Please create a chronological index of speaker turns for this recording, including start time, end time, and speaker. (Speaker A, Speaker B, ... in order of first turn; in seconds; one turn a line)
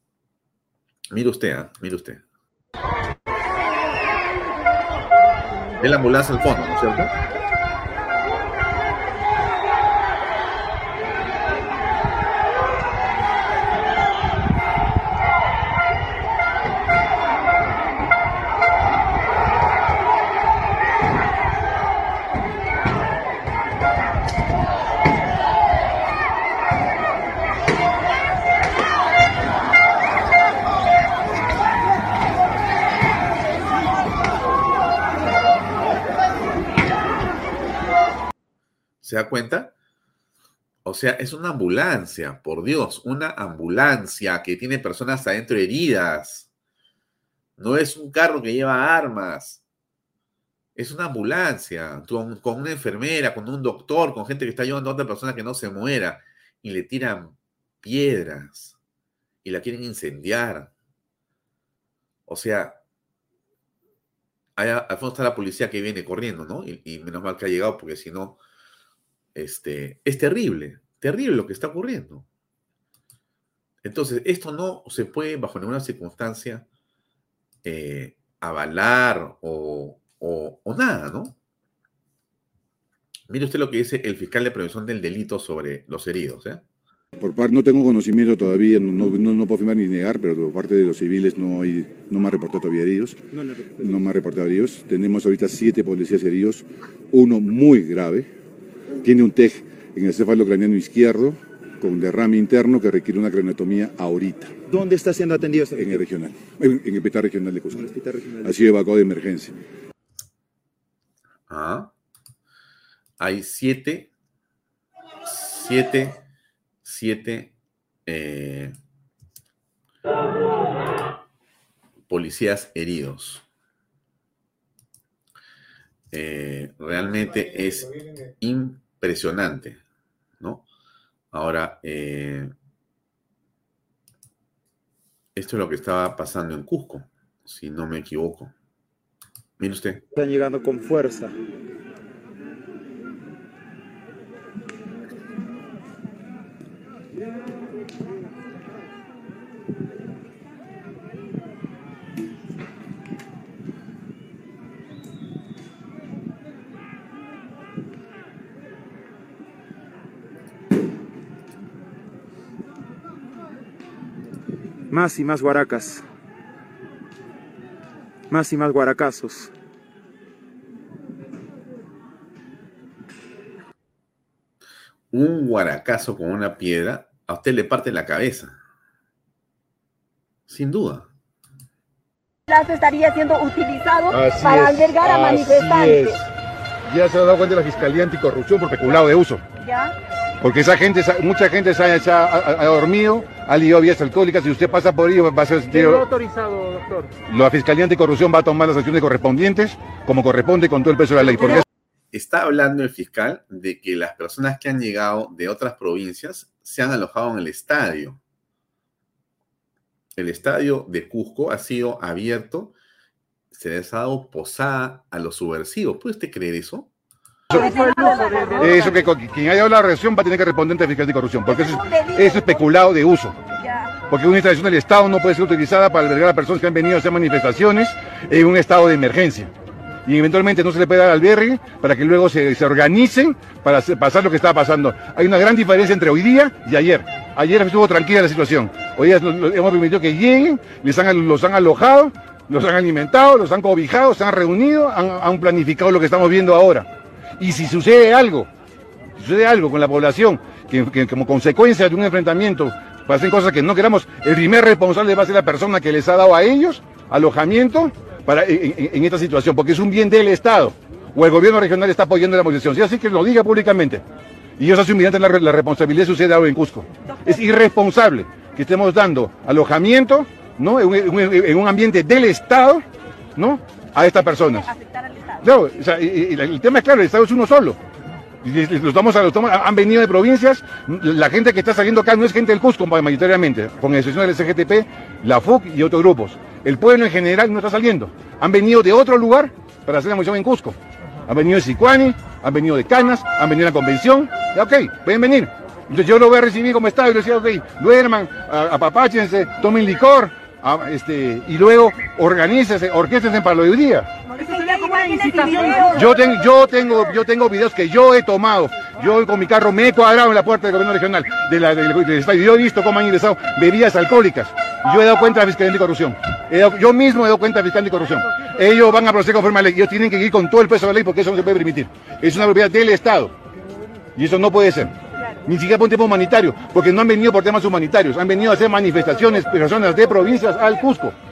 Speaker A: 1.1-2.2
Speaker A: 5.8-7.1
Speaker A: 39.0-39.7
Speaker A: 40.9-46.5
Speaker A: 47.6-49.6
Speaker A: 50.8-58.8
Speaker A: 59.4-60.7
Speaker A: 62.3-62.8
Speaker A: 64.6-68.4
Speaker A: 69.3-72.3
Speaker A: 73.8-76.7
Speaker A: 77.6-81.4
Speaker A: 83.3-86.6
Speaker B: 87.2-93.2
Speaker B: 93.8-98.3
Speaker B: 99.0-104.5
Speaker C: 104.7-106.1
Speaker B: 105.8-107.9
Speaker C: 107.7-108.8
Speaker B: 108.4-109.5
Speaker A: 111.5-111.9
Speaker A: 113.2-114.1
Speaker A: 115.2-116.2
Speaker A: 116.8-117.5
Speaker A: 118.1-118.7
Speaker A: 122.1-123.5
Speaker A: 126.1-129.8
Speaker A: 130.4-130.7
Speaker A: 131.3-132.5
Speaker A: 135.4-138.5
Speaker A: 139.6-140.0
Speaker C: 140.2-141.3
Speaker C: 164.9-166.0
Speaker C: 168.3-169.5
Speaker A: 175.1-178.6
Speaker A: 180.5-181.1
Speaker D: 182.5-186.2
Speaker B: 184.1-186.2
Speaker B: 186.9-189.4
Speaker D: 189.6-189.9
Speaker B: 190.4-196.2
Speaker B: 197.3-201.6
Speaker A: 202.1-208.2
Speaker A: 210.2-212.7
Speaker A: 213.5-216.9
Speaker B: 217.5-223.4
Speaker D: 217.5-219.0
Speaker D: 221.5-222.6
Speaker B: 224.1-229.5
Speaker B: 230.1-248.5
Speaker B: 249.2-264.0
Speaker B: 264.6-272.8
Speaker B: 273.4-274.7
Speaker D: 274.6-275.4
Speaker B: 275.4-277.8
Speaker B: 278.4-304.1
Speaker D: 304.3-306.1
Speaker B: 305.9-323.3
Speaker B: 324.2-324.9
Speaker B: 325.5-331.2